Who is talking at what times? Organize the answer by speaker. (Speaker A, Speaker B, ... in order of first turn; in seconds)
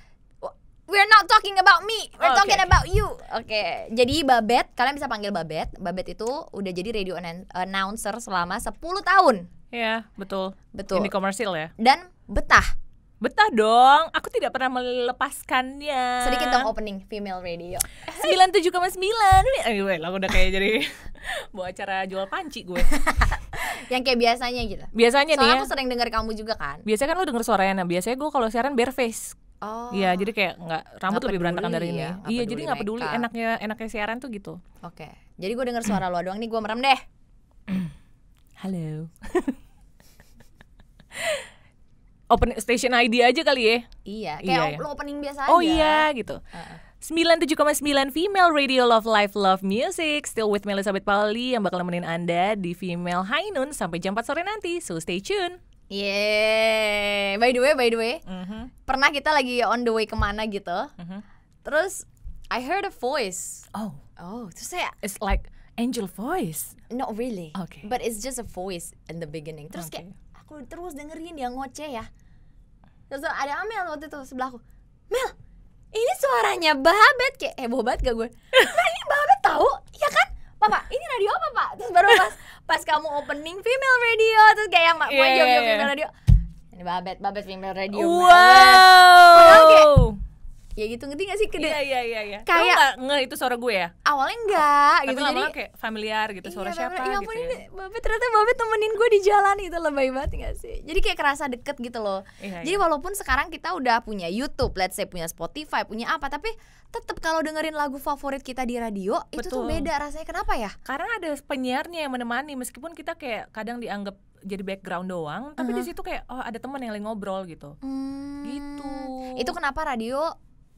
Speaker A: 0.4-9.5, 10.7-11.1, 11.8-12.7, 16.2-18.4, 22.8-26.9, 29.6-30.3, 31.1-33.3, 34.8-37.0, 44.1-46.8, 55.9-58.2, 58.9-60.9, 61.6-63.7, 64.2-65.0, 66.9-72.1, 73.1-75.3, 75.9-86.1, 86.7-89.9, 90.8-91.8, 92.5-92.8, 94.0-95.5, 96.4-110.8, 115.6-115.9, 117.8-120.3
Speaker B: 2.2-2.8, 9.7-11.7, 13.2-16.7, 18.1-22.9, 24.9-25.7, 26.9-29.4, 29.9-34.6, 37.7-37.9, 38.6-39.6, 41.1-41.5, 42.3-43.9, 44.4-44.8, 45.5-46.4, 47.0-55.6, 58.3-58.7, 61.0-61.2, 63.7-64.0, 65.0-66.8, 67.6-67.9, 69.8-70.2, 85.1-85.9, 87.9-90.2, 91.6-93.9, 95.1-97.6, 102.4-102.8, 109.4-109.9, 110.8-117.8, 118.4-119.5